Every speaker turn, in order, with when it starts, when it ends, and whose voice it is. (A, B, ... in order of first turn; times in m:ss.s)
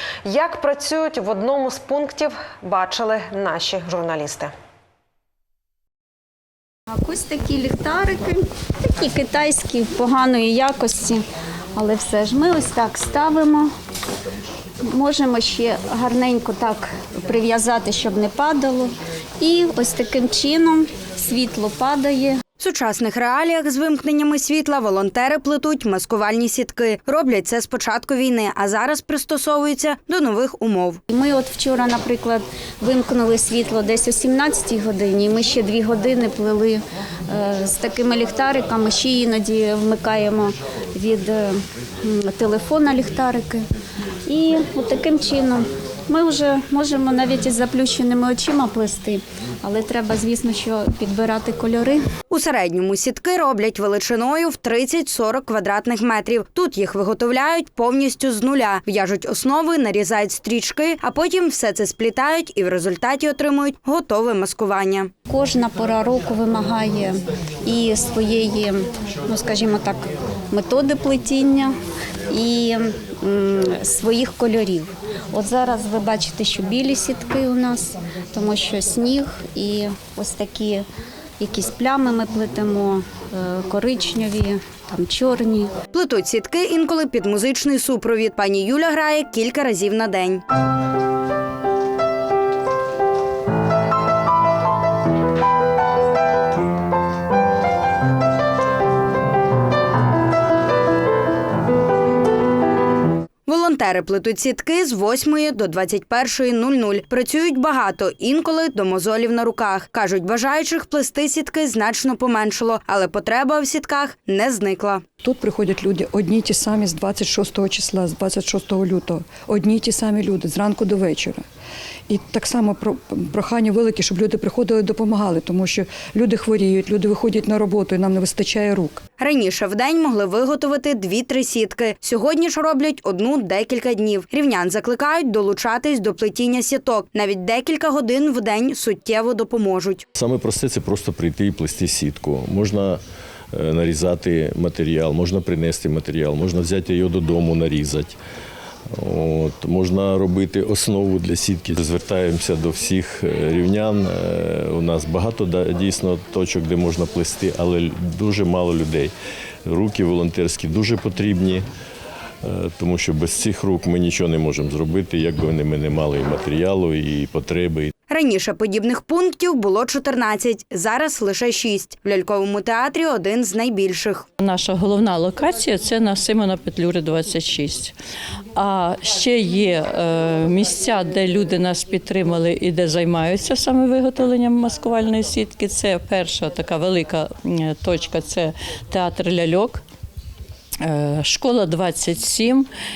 0:00.2-0:04.5 A
0:06.9-0:11.2 B
0:11.7-0:13.7 B
0:14.8-0:22.4 B
0:22.6-0:31.0 C
0:31.1-0:43.6 B
0:44.2-0:52.0 B
0:52.3-1:05.1 C
1:05.3-1:11.7 B
1:12.3-1:20.8 B
1:21.4-1:25.7 B
1:25.9-1:30.4 C
1:43.5-1:55.0 C
1:55.2-2:01.4 D
2:02.1-2:09.0 D
2:09.2-2:20.0 C
2:20.1-2:23.0 E
2:23.5-2:28.2 E
2:28.9-2:39.1 E
2:39.6-2:41.6 E
2:42.4-2:47.9 E
2:48.1-2:54.2 C
2:54.4-2:57.9 F
2:58.6-3:09.8 F
3:10.8-3:12.7 F